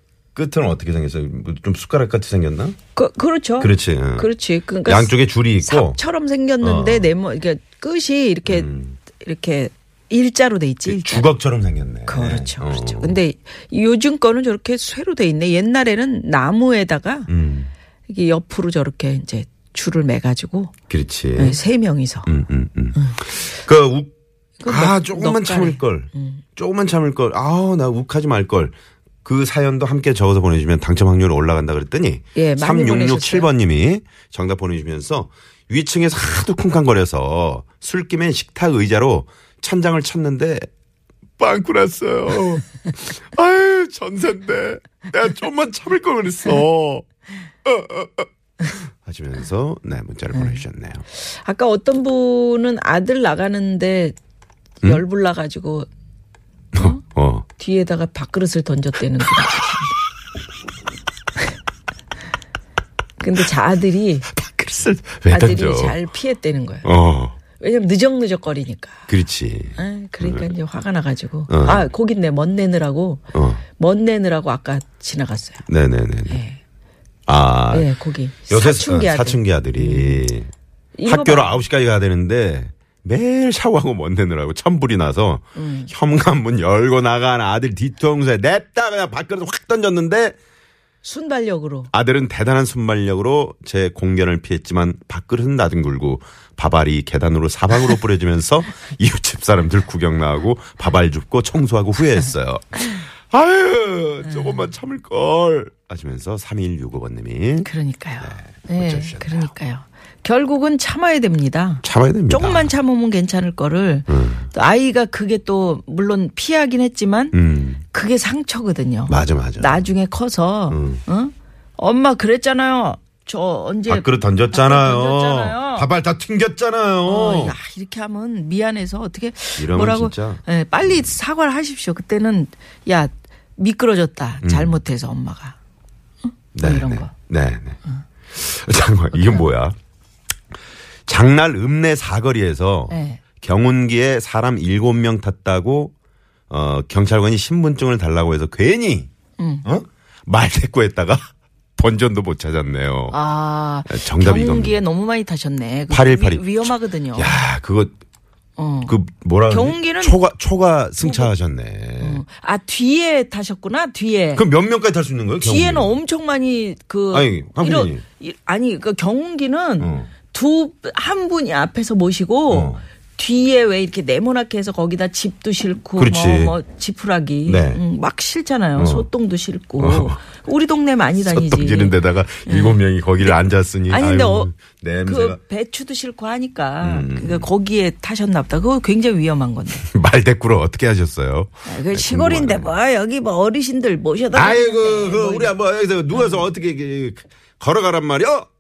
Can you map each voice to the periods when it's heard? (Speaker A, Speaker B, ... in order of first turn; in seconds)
Speaker A: 0.3-2.8, 3.6-4.3, 4.8-6.0, 6.6-7.1, 8.4-9.0, 10.9-13.2, 17.3-17.7, 20.9-21.6, 22.3-24.1, 24.7-40.7, 41.4-47.1, 47.6-51.0, 56.7-57.5, 64.3-66.0, 66.8-67.3, 69.1-70.5, 71.5-71.8, 73.3-73.6, 75.7-76.4, 77.3-77.9, 78.5-80.5, 81.1-90.4, 91.9-107.7, 108.2-109.5, 111.8-112.7, 114.1-114.5, 117.3-117.8, 119.1-119.9, 120.7-121.0, 123.9-127.6, 129.6-131.1, 134.4-134.8, 136.6-137.8, 138.3-139.8, 141.1-145.9, 146.5-149.1, 149.6-153.2, 153.9-154.8, 155.9-157.9, 158.9-162.2, 164.4-166.0, 167.1-168.0, 169.8-170.1, 172.5-172.8, 176.0-176.6, 177.5-177.8, 178.8-179.1, 179.8-180.2, 181.2-185.4, 186.8-187.5, 189.8-192.7, 194.3-198.5
Speaker B: 3.0-5.1, 5.6-11.3, 12.1-17.3, 18.1-20.7, 21.4-22.3, 22.9-23.2, 24.6-26.4, 32.4-33.5, 51.2-54.2, 54.8-55.9, 56.8-57.0, 57.6-59.9, 63.2-64.3, 65.3-66.9, 67.6-69.0, 69.8-75.6, 76.3-76.6, 77.7-80.2, 81.0-81.5, 85.6-85.9, 91.0-91.9, 104.3-104.7, 107.7-117.3, 117.9-125.9, 127.1-135.6, 136.6-137.1, 139.1-139.5, 142.9-143.2, 149.4-149.7, 153.1-157.3, 158.6-158.9, 159.5-160.2, 161.0-161.3, 162.0-164.4, 165.4-184.5, 185.1-189.8, 191.7-195.5, 196.1-196.4